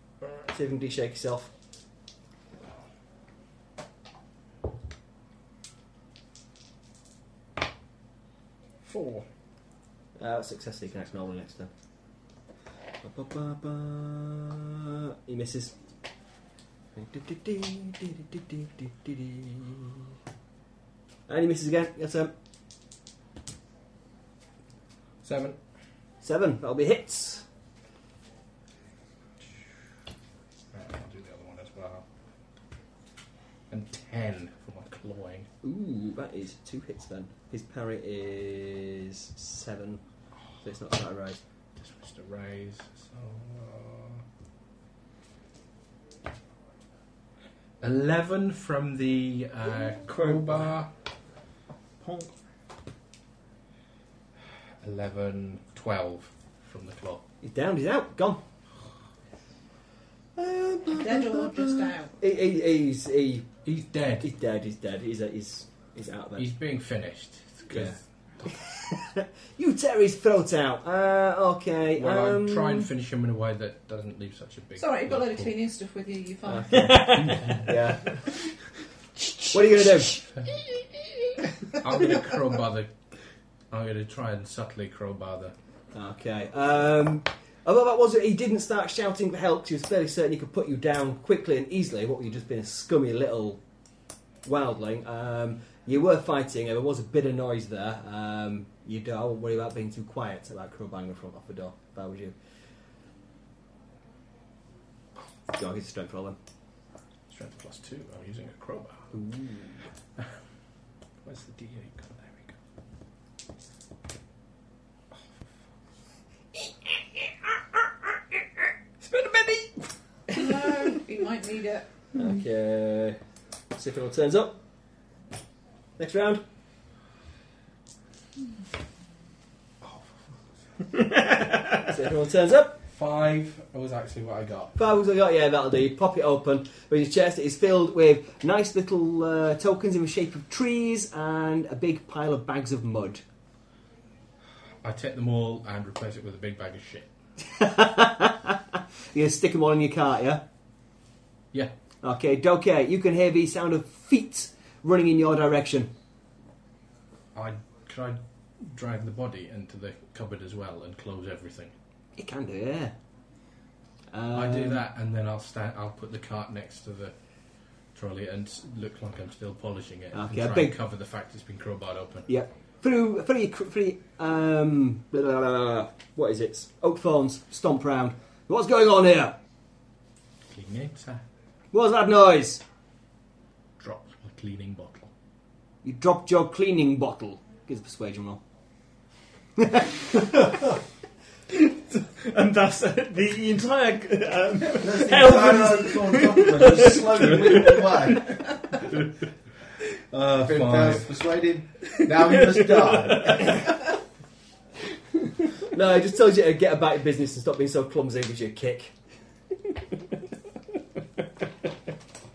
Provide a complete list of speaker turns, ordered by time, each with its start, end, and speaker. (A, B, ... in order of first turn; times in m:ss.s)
0:00.3-0:01.5 A
0:08.8-0:09.2 B
0:10.2-0:11.7 A
0:13.0-0:15.7 A
0:16.9-0:20.0 A
0:21.3-0:22.3 A
0:25.2-0:25.6 B
0:26.2-0:27.4 A
0:30.7-0:32.0 B
0:33.7-0:35.5 B
0:35.6-0:40.0 A
0:40.6-0:41.4 A
0:41.8-0:44.2 B
0:47.8-0:50.9 B
0:50.2-0:50.6 C
0:52.0-0:52.3 C
0:54.8-0:57.2 B
0:57.4-0:58.4 A
1:00.4-1:03.6 A
1:00.9-1:02.1 D
1:03.6-1:04.3 B
1:04.2-1:06.5 A
1:06.4-1:08.6 B
1:07.7-1:08.0 A
1:08.5-1:12.9 A
1:12.0-1:15.6 B
1:14.8-1:17.0 D
1:16.4-1:18.2 A
1:16.8-1:17.5 C
1:17.0-1:17.6 B
1:19.5-1:20.2 A
1:21.8-1:22.9 B
1:23.7-1:25.5 B
1:25.9-1:33.6 A
1:34.4-1:42.3 A
1:45.5-1:46.4 A
1:47.3-1:49.1 B
1:49.1-1:49.8 A
1:51.2-1:52.5 B
2:00.3-2:01.9 D
2:02.1-2:03.2 A
2:03.7-2:04.6 A
2:06.0-2:06.4 A
2:11.7-2:12.8 A
2:12.9-2:14.7 B
2:14.8-2:23.2 A
2:24.8-2:27.1 B
2:27.5-2:28.6 A
2:29.1-2:30.4 A
2:32.0-2:35.9 A
2:37.3-2:41.7 B
2:42.2-2:42.9 A
2:44.1-2:44.8 A
2:44.3-2:47.1 B
2:47.9-2:52.3 B
2:50.1-2:50.7 A
2:52.3-2:59.4 A
3:00.5-3:01.2 B
3:01.7-3:02.6 A
3:03.8-3:05.1 B
3:05.8-3:08.4 A
3:09.6-3:09.9 A
3:11.5-3:17.8 C
3:14.8-3:18.9 E
3:20.1-3:23.7 E
3:20.2-3:21.1 B
3:25.7-3:28.9 A